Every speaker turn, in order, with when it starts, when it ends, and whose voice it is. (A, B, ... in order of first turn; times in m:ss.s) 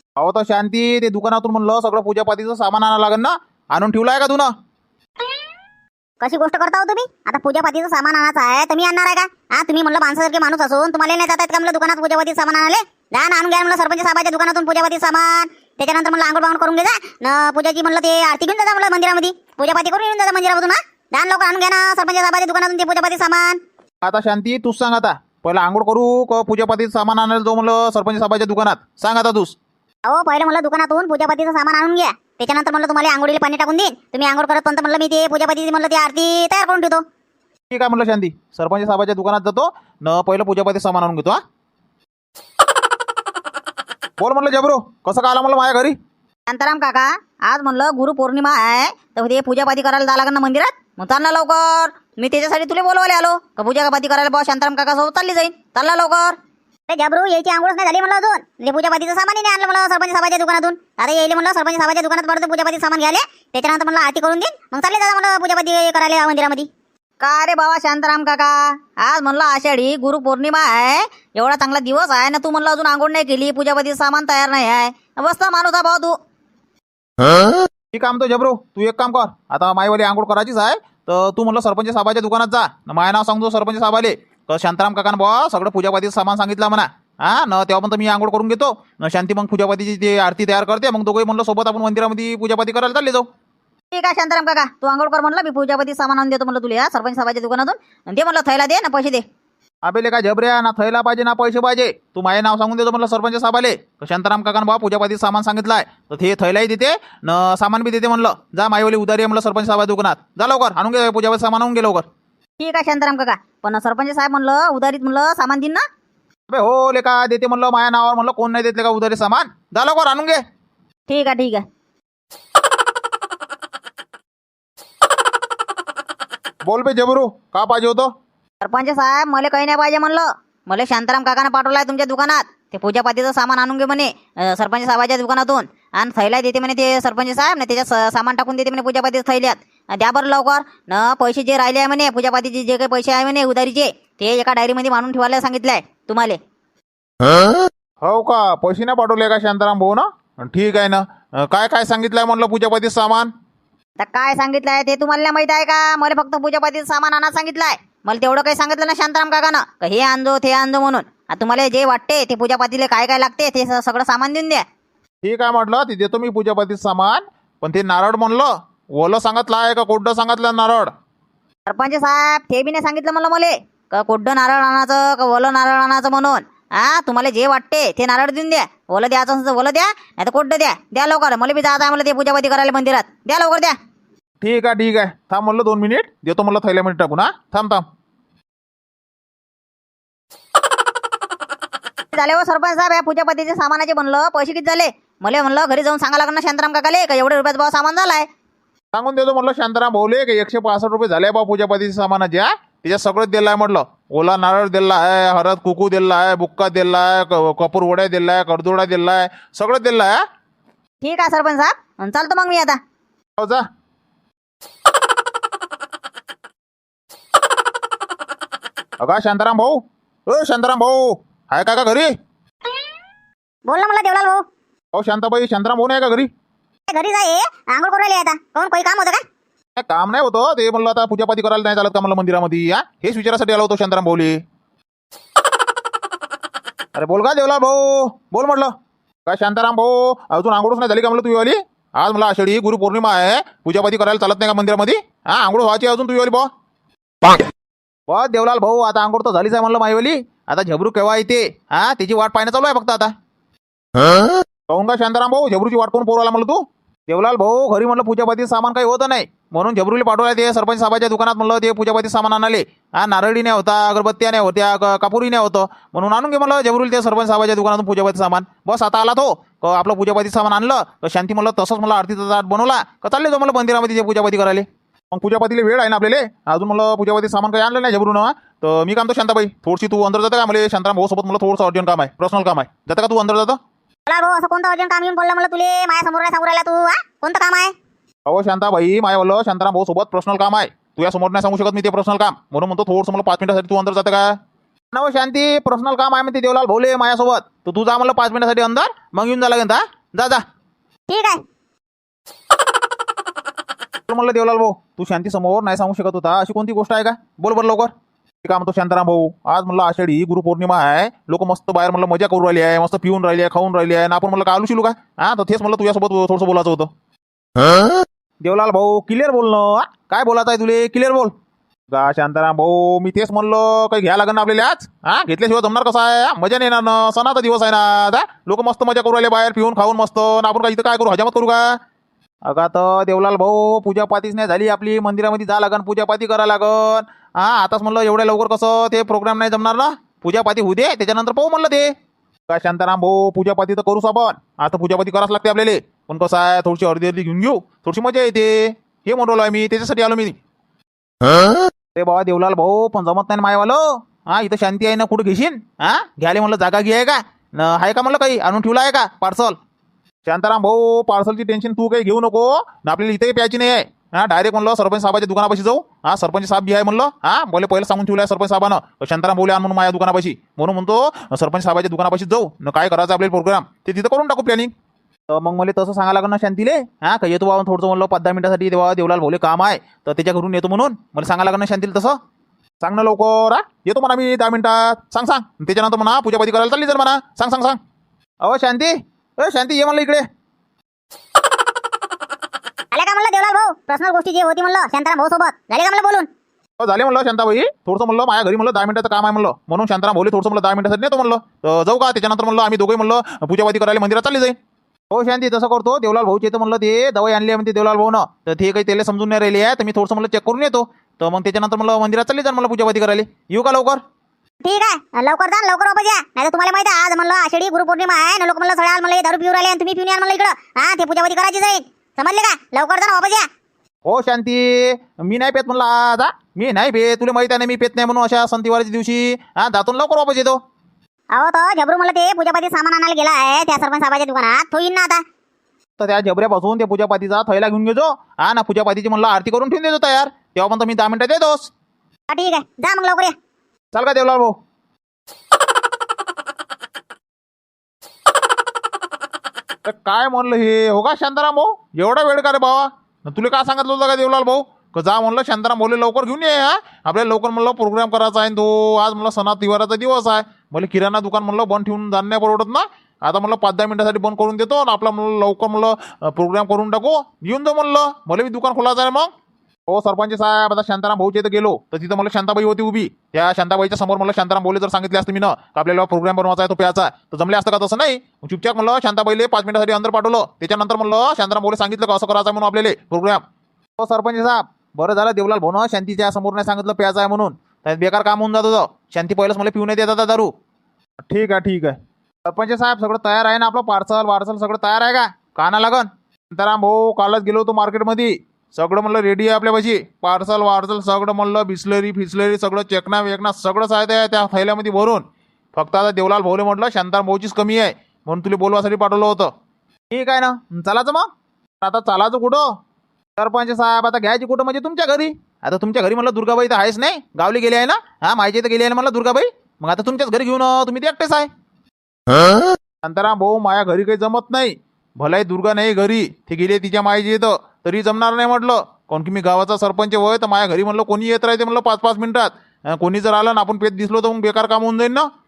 0:00.2-0:04.5 A
0:06.2-0:23.6 B
0:24.0-0:29.6 A
0:30.0-0:37.0 B
0:37.7-0:41.4 A
0:44.2-0:45.9 A
0:46.5-0:56.4 C
0:56.9-1:06.7 B
1:07.2-1:16.1 C
1:17.9-1:33.2 A
1:33.9-1:39.2 C
1:39.8-1:52.0 A
1:52.6-1:55.8 C
1:56.5-2:00.4 A
2:01.1-2:01.6 C
2:06.6-2:08.1 A
2:08.6-2:26.4 C
2:28.0-2:33.3 A
2:34.0-2:44.6 C
2:45.2-2:50.9 A
2:51.6-3:03.7 C
3:04.4-3:07.8 A
3:12.1-3:18.2 C
3:18.9-3:30.2 A
3:31.0-3:32.8 C
3:33.4-3:33.6 A
3:39.0-3:42.1 A
3:43.7-3:44.4 B
3:44.9-3:46.3 A
3:46.9-3:49.2 B
3:49.8-3:54.4 A
3:56.9-3:58.7 A
3:59.2-4:06.5 A
4:08.1-4:13.1 A
4:14.7-4:43.6 A
4:44.1-4:47.7 B
4:48.2-4:54.3 A
4:54.9-5:00.4 A
5:01.1-5:01.4 B
5:04.1-5:07.9 A
5:08.4-5:16.9 A
5:18.4-5:21.3 A
5:21.9-5:31.7 A
5:32.5-5:41.9 A
5:42.5-5:50.3 A
5:51.9-5:59.6 A
6:00.2-6:14.7 A
6:15.3-6:22.2 A
6:22.8-6:27.8 A
6:28.4-6:30.2 A
6:32.9-6:36.3 B
6:36.8-6:44.5 A
6:45.1-6:54.0 A
6:54.6-7:03.4 B
7:04.0-7:10.6 A
7:11.3-7:15.2 B
7:16.0-7:21.7 A
7:22.3-7:23.3 B
7:23.9-7:24.5 A
7:29.8-7:49.3 A
7:49.9-8:03.4 A
8:04.0-8:10.5 A
8:11.3-8:25.2 A
8:25.7-8:29.5 A
8:30.1-8:31.3 A
8:31.8-8:32.7 A
8:33.4-8:41.5 A
8:43.0-8:55.3 A